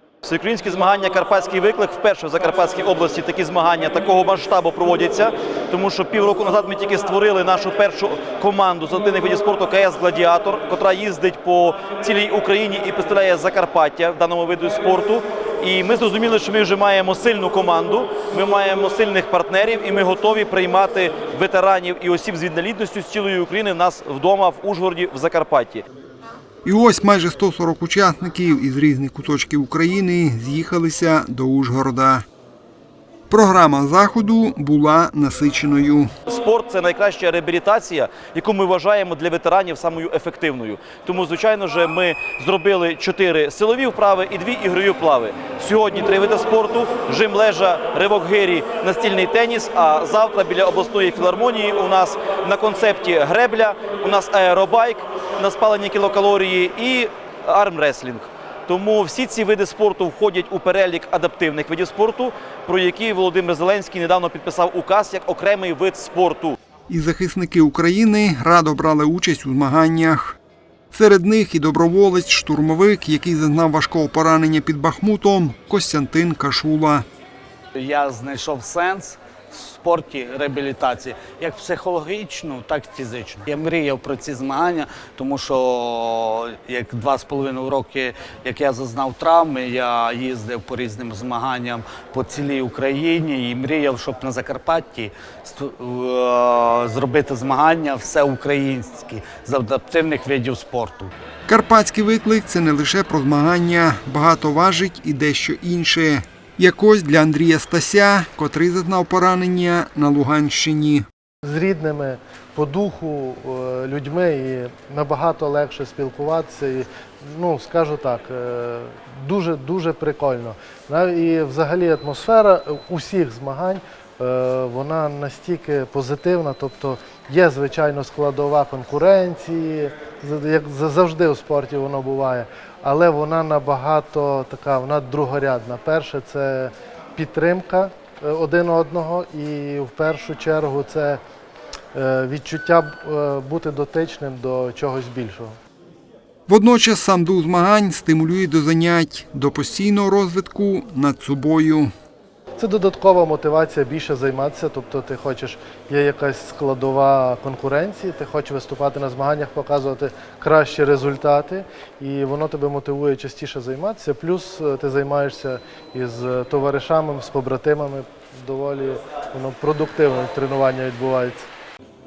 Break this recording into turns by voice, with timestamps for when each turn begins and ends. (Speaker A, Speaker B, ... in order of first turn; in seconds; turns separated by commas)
Speaker A: 0.2-25.8, Speaker B: 26.6-32.2, Speaker B: 33.3-36.1, Speaker A: 36.3-66.5, Speaker B: 66.9-70.4, Speaker B: 70.9-77.0, Speaker C: 77.7-101.1, Speaker B: 101.5-111.1, Speaker D: 111.4-141.2, Speaker D: 141.9-145.6, Speaker B: 146.5-151.9, Speaker D: 152.6-171.4